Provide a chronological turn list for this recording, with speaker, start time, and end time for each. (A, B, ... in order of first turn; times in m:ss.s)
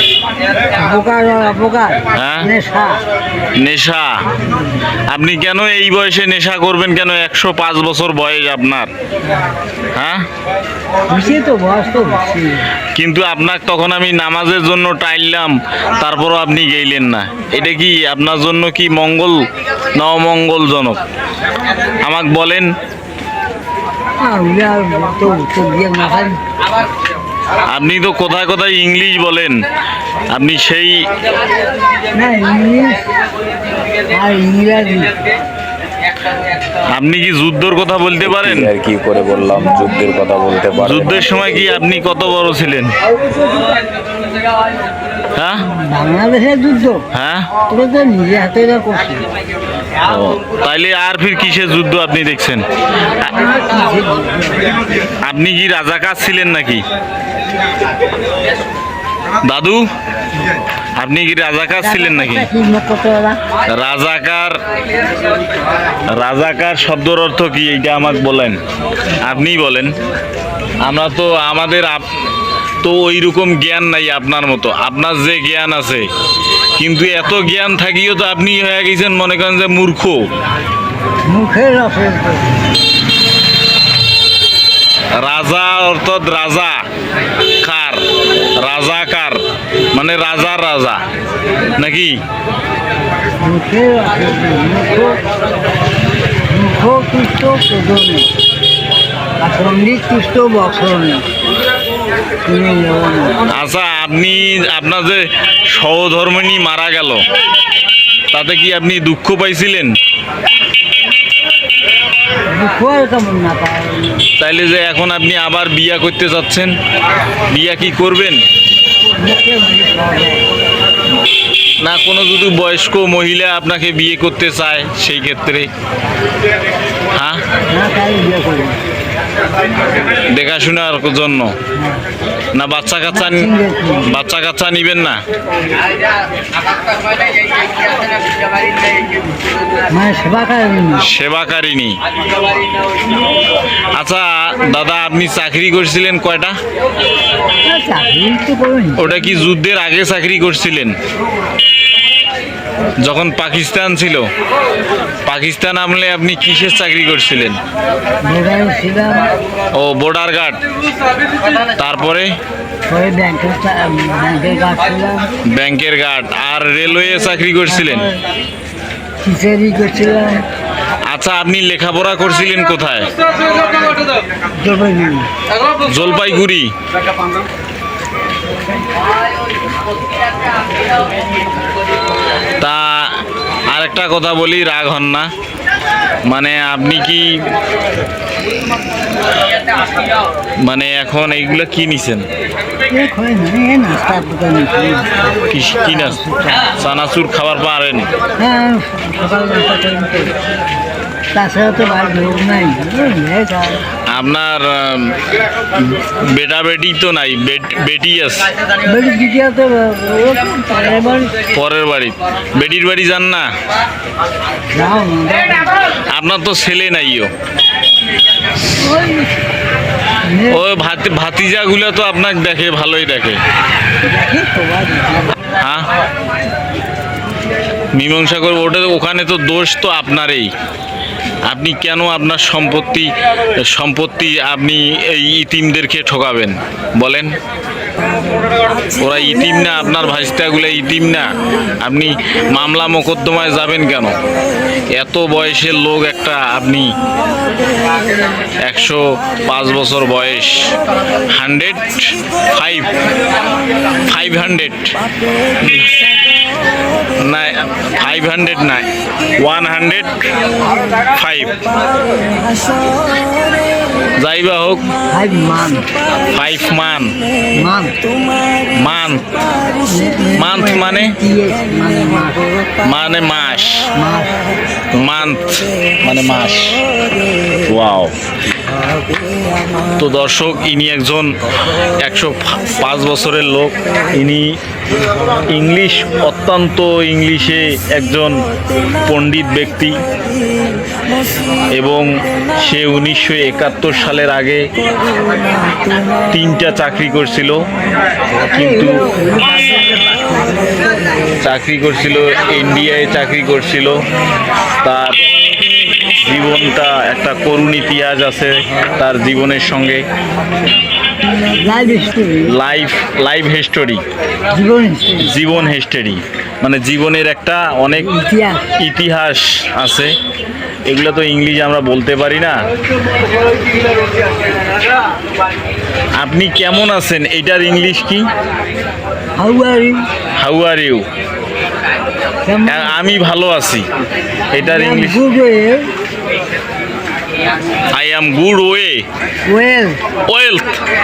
0:00.8-0:03.0 A
0:02.1-0:02.5 B
0:03.6-0:04.1 B
0:05.1-0:08.9 B
0:09.2-0:09.6 A
0:09.9-0:10.2 B
0:11.1-0:12.6 A
0:13.0-0:21.0 B
0:22.0-0:22.7 B
0:24.2-0:26.4 A
0:27.7-0:29.6 B
0:30.3-0:31.0 B
0:32.1-0:33.1 A
0:34.1-0:35.2 A
0:36.9-0:38.7 B
0:38.2-0:41.2 C
0:40.8-0:42.9 B
0:45.4-0:45.6 B
0:45.6-0:47.0 A
0:47.1-0:47.5 B
0:47.7-0:49.2 A
0:50.0-0:52.6 B
0:53.2-0:54.8 A
0:55.2-0:56.8 B
0:59.4-0:59.8 B
1:01.0-1:02.5 B
1:01.8-1:03.4 A
1:03.7-1:04.6 B
1:06.1-1:08.6 B
1:09.2-1:09.9 B
1:10.8-1:12.0 B
1:12.8-1:16.1 B
1:16.8-1:20.2 B
1:21.3-1:22.5 A
1:25.2-1:26.8 B
1:27.6-1:28.0 B
1:28.6-1:29.4 B
1:29.9-1:31.0 B
1:31.8-1:32.2 B
1:33.4-1:35.2 A
1:36.5-1:38.3 A
1:39.4-1:41.2 A
1:42.4-1:43.5 A
1:43.5-1:47.2 B
1:48.3-1:49.9 B
1:52.5-1:54.3 A
1:54.4-1:56.7 B
1:57.5-1:58.4 B
1:59.2-2:00.5 A
2:01.8-2:05.7 B
2:07.1-2:07.4 B
2:07.7-2:08.8 A
2:10.3-2:11.5 B
2:11.8-2:12.0 A
2:12.5-2:13.5 B
2:13.1-2:14.2 A
2:14.0-2:15.2 B
2:19.9-2:21.1 A
2:21.0-2:22.0 B
2:23.9-2:26.6 B
2:27.7-2:29.5 A
2:29.0-2:31.0 B
2:33.0-2:34.3 B
2:35.2-2:37.6 B
2:38.3-2:39.3 A
2:39.7-2:40.6 B
2:41.7-2:42.3 B
2:42.9-2:45.3 A
2:45.4-2:48.1 B
2:47.3-2:48.2 A
2:49.2-2:50.4 A
2:51.1-2:53.1 B
2:54.6-2:55.3 A
2:55.8-2:56.7 B
3:02.6-3:03.1 B
3:03.7-3:05.3 B
3:06.3-3:07.3 B
3:10.6-3:12.3 B
3:12.9-3:16.8 A
3:15.5-3:16.2 B
3:16.7-3:18.1 B
3:18.4-3:20.3 A
3:21.4-3:23.9 A
3:24.1-3:25.2 B
3:25.9-3:28.5 B
3:28.8-3:31.3 A
3:31.5-3:33.5 B
3:34.7-3:35.8 A
3:36.1-3:37.3 B
3:38.7-3:39.4 A
3:40.3-3:40.7 A
3:40.5-3:43.4 B
3:44.0-3:45.4 A
3:45.4-3:45.9 B
3:47.9-3:50.5 B
3:51.5-3:57.3 B
3:59.0-4:01.3 B
4:01.8-4:04.2 B
4:05.0-4:06.9 B
4:08.6-4:10.7 B
4:11.3-4:12.9 B
4:14.1-4:14.9 B
4:17.2-4:18.8 B
4:19.4-4:20.1 B
4:21.1-4:21.5 B
4:24.2-4:24.8 B
4:25.1-4:25.9 A
4:26.3-4:27.2 B
4:27.6-4:28.0 A
4:28.8-4:29.2 B
4:29.8-4:32.5 A
4:30.4-4:31.2 B
4:32.8-4:33.9 B
4:34.0-4:34.4 A
4:35.0-4:36.8 B
4:37.7-4:38.1 B
4:40.0-4:41.3 B
4:42.0-4:44.5 B
4:45.5-4:48.4 B
4:49.0-4:50.0 B
4:51.8-4:52.1 B
4:52.6-4:54.7 B
4:56.3-4:57.6 B
4:58.5-5:01.0 A
4:58.5-4:59.0 B
5:01.4-5:04.0 B
5:04.8-5:05.2 B
5:06.2-5:10.0 B
5:11.6-5:12.6 A
5:12.5-5:14.0 B
5:14.5-5:15.4 A
5:15.2-5:18.1 B
5:17.9-5:18.7 A
5:18.8-5:20.1 B
5:20.9-5:22.6 B
5:26.2-5:28.3 B
5:29.4-5:30.0 A
5:30.4-5:31.0 B
5:32.5-5:33.0 A
5:32.7-5:33.8 B
5:34.5-5:35.2 B
5:34.6-5:35.8 A
5:37.9-5:39.0 B
5:39.5-5:40.0 A
5:40.3-5:40.8 B